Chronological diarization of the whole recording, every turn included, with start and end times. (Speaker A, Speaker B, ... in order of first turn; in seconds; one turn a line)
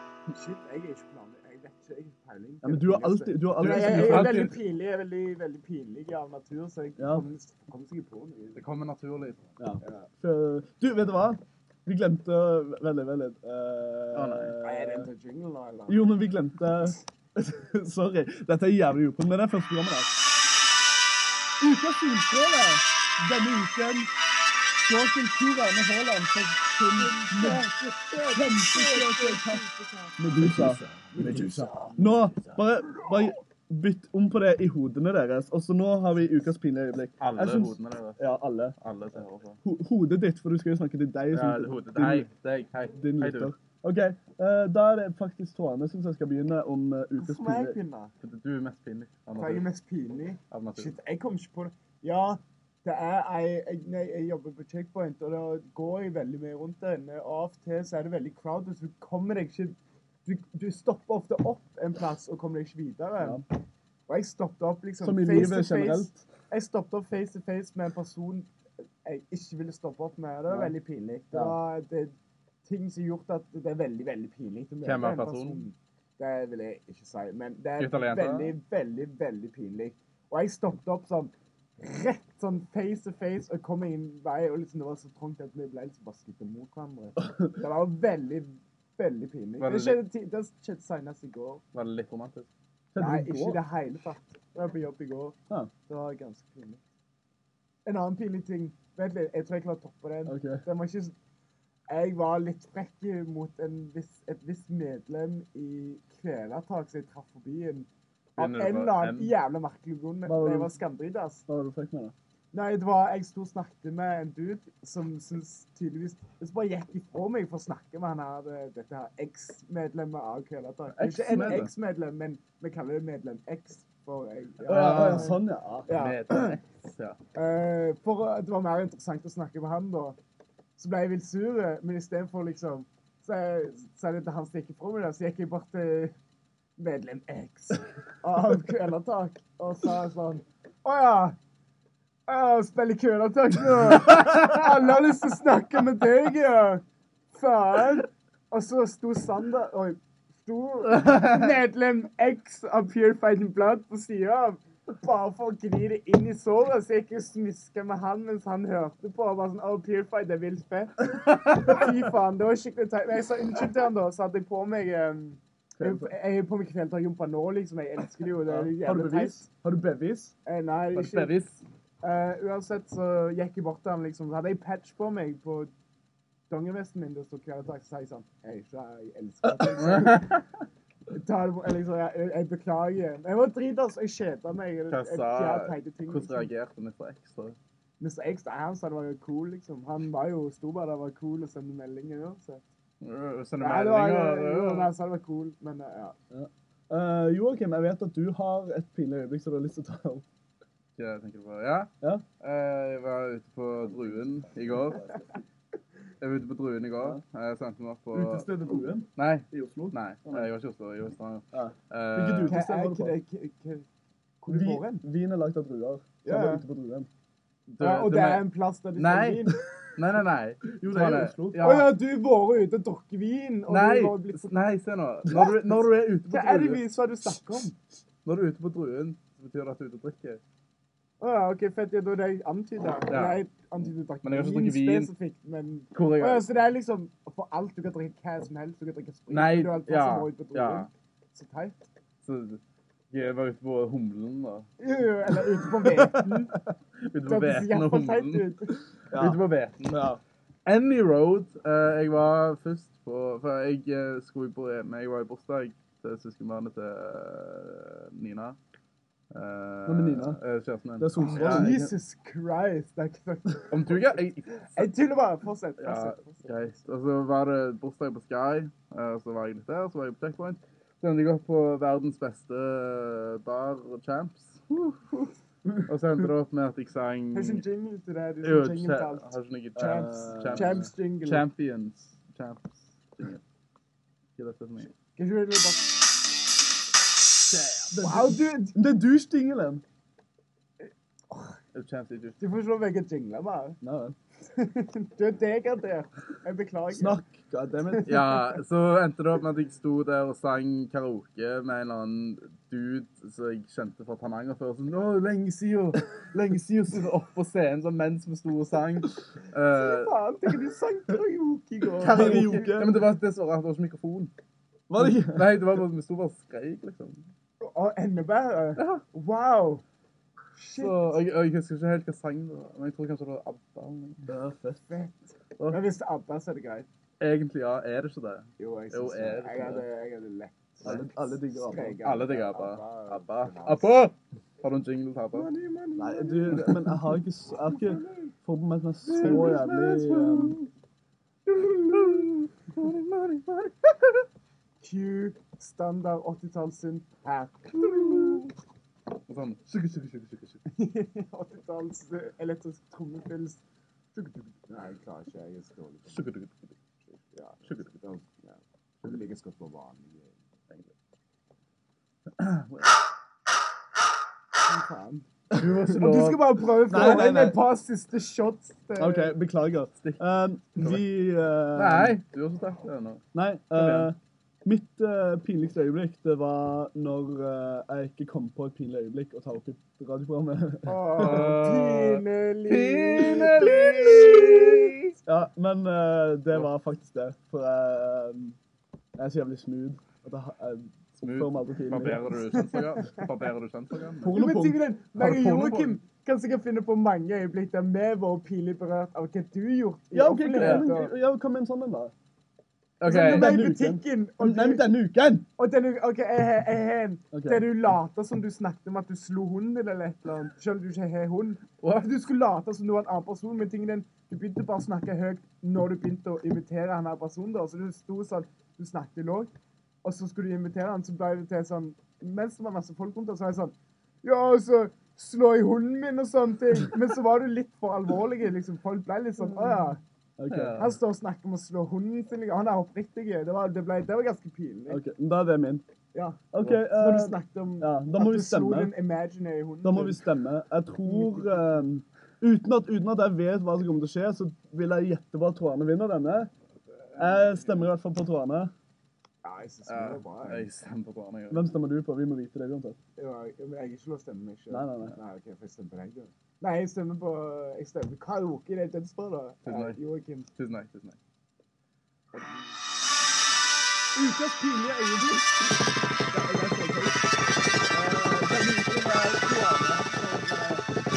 Speaker A: 0.3-8.7
Speaker B: 2.6-4.5
Speaker C: 3.6-4.6
Speaker B: 7.0-7.2
Speaker C: 8.6-9.4
Speaker B: 9.6-15.1
Speaker A: 9.8-10.1
Speaker C: 14.1-14.6
Speaker A: 14.6-16.1
Speaker B: 15.9-20.1
Speaker B: 21.6-24.1
Speaker B: 24.9-27.7
Speaker A: 27.0-32.2
Speaker B: 28.3-29.6
Speaker B: 30.2-38.8
Speaker C: 30.4-32.6
Speaker C: 37.2-38.2
Speaker C: 38.8-39.6
Speaker B: 39.6-42.3
Speaker C: 41.3-43.5
Speaker B: 43.0-47.8
Speaker A: 47.2-48.1
Speaker C: 48.2-49.6
Speaker A: 49.4-63.5
Speaker C: 50.5-50.9
Speaker A: 64.1-68.5
Speaker B: 65.0-66.2
Speaker A: 69.0-72.1
Speaker B: 70.5-70.7
Speaker A: 72.7-91.6
Speaker C: 74.8-75.7
Speaker C: 77.8-78.5
Speaker B: 87.2-87.5
Speaker C: 89.6-90.0
Speaker C: 91.7-92.5
Speaker B: 92.9-93.6
Speaker A: 93.0-95.4
Speaker A: 95.9-96.8
Speaker A: 97.9-101.1
Speaker B: 100.3-100.6
Speaker A: 101.9-111.5
Speaker C: 108.4-109.3
Speaker B: 110.3-110.7
Speaker B: 111.5-112.1
Speaker A: 112.5-126.6
Speaker C: 121.0-121.7
Speaker C: 124.6-127.2
Speaker B: 124.7-125.9
Speaker A: 127.3-130.2
Speaker A: 130.8-136.1
Speaker A: 136.8-141.4
Speaker A: 142.3-169.5
Speaker C: 150.9-151.5
Speaker B: 165.8-166.1
Speaker B: 168.5-170.3
Speaker A: 170.4-171.3
Speaker C: 170.9-171.6
Speaker A: 172.0-175.7
Speaker A: 176.5-180.4
Speaker C: 179.8-180.4
Speaker A: 181.1-186.5
Speaker C: 184.9-187.6
Speaker A: 188.0-192.6
Speaker C: 193.0-194.9
Speaker A: 193.6-196.2
Speaker B: 196.3-200.2
Speaker C: 201.0-205.1
Speaker C: 206.2-208.5
Speaker B: 208.1-210.5
Speaker C: 209.2-212.6
Speaker B: 211.5-213.1
Speaker A: 212.5-213.9
Speaker A: 214.4-215.0
Speaker B: 214.5-217.1
Speaker A: 216.2-216.6
Speaker C: 217.8-221.9
Speaker A: 217.8-219.6
Speaker B: 220.7-221.7
Speaker A: 221.6-224.5
Speaker C: 223.7-226.9
Speaker A: 225.3-225.7
Speaker A: 226.3-227.8
Speaker C: 228.2-230.4
Speaker A: 231.2-241.9
Speaker C: 233.1-233.4
Speaker C: 234.2-235.1
Speaker C: 235.9-236.4
Speaker C: 239.3-240.9
Speaker C: 242.2-242.6
Speaker C: 243.1-244.7
Speaker A: 244.8-246.6
Speaker C: 247.1-248.5
Speaker A: 247.3-248.8
Speaker C: 249.1-250.0
Speaker B: 249.1-250.2
Speaker C: 250.7-258.6
Speaker C: 259.3-261.8
Speaker B: 259.9-260.4
Speaker B: 261.0-261.9
Speaker A: 261.4-264.2
Speaker C: 263.7-264.9
Speaker A: 264.8-266.6
Speaker C: 265.8-277.6
Speaker A: 277.3-281.5
Speaker C: 278.4-283.4
Speaker B: 279.8-280.9
Speaker C: 284.4-284.9
Speaker A: 285.2-285.9
Speaker B: 287.9-289.8
Speaker A: 288.0-288.8
Speaker C: 291.7-292.4
Speaker A: 292.4-293.8
Speaker B: 293.8-294.2
Speaker A: 294.5-297.2
Speaker B: 296.9-298.1
Speaker A: 297.9-298.6
Speaker C: 298.0-310.1
Speaker A: 309.7-312.9
Speaker B: 312.0-313.0
Speaker C: 312.1-314.3
Speaker B: 314.9-315.6
Speaker C: 315.0-317.3
Speaker A: 317.6-319.8
Speaker C: 318.8-319.0
Speaker A: 320.6-321.2
Speaker C: 320.8-324.3
Speaker B: 324.3-324.9
Speaker A: 324.9-326.9
Speaker C: 327.2-329.9
Speaker A: 328.6-334.0
Speaker B: 330.8-332.0
Speaker C: 331.8-335.5
Speaker A: 335.3-336.9
Speaker B: 336.0-340.6
Speaker C: 336.5-336.9
Speaker A: 337.6-338.3
Speaker C: 339.1-340.7
Speaker C: 341.5-344.2
Speaker A: 344.8-348.5
Speaker C: 347.7-348.5
Speaker C: 349.3-350.6
Speaker A: 350.7-353.6
Speaker A: 354.1-356.3
Speaker C: 356.1-356.8
Speaker A: 357.1-360.4
Speaker C: 362.4-363.0
Speaker A: 364.7-369.4
Speaker C: 365.6-367.3
Speaker B: 366.9-367.6
Speaker B: 369.0-372.2
Speaker C: 370.8-371.0
Speaker C: 371.7-373.2
Speaker B: 373.3-381.5
Speaker C: 373.7-374.1
Speaker A: 380.9-385.0
Speaker C: 381.2-385.0
Speaker B: 385.3-388.6
Speaker B: 389.2-392.4
Speaker C: 391.2-394.4
Speaker A: 392.5-393.3
Speaker B: 394.2-394.8
Speaker A: 394.3-401.1
Speaker C: 395.1-396.0
Speaker B: 400.1-402.1
Speaker C: 400.6-400.9
Speaker C: 403.0-403.6
Speaker A: 403.0-404.9
Speaker B: 403.1-405.5
Speaker A: 405.6-419.5
Speaker B: 407.3-407.7
Speaker C: 411.8-412.1
Speaker A: 420.0-430.0
Speaker B: 430.4-430.8
Speaker C: 430.5-431.0
Speaker A: 430.8-435.0
Speaker B: 434.9-435.9
Speaker A: 436.1-440.3
Speaker B: 436.5-438.9
Speaker B: 439.8-446.5
Speaker A: 441.1-441.8
Speaker C: 447.1-447.8
Speaker B: 447.2-448.7
Speaker A: 449.4-450.7
Speaker C: 449.9-451.7
Speaker B: 451.5-453.0
Speaker A: 453.2-460.5
Speaker B: 454.7-455.2
Speaker C: 459.7-460.0
Speaker C: 460.6-461.2
Speaker A: 462.3-462.8
Speaker B: 464.1-467.2
Speaker B: 467.9-470.9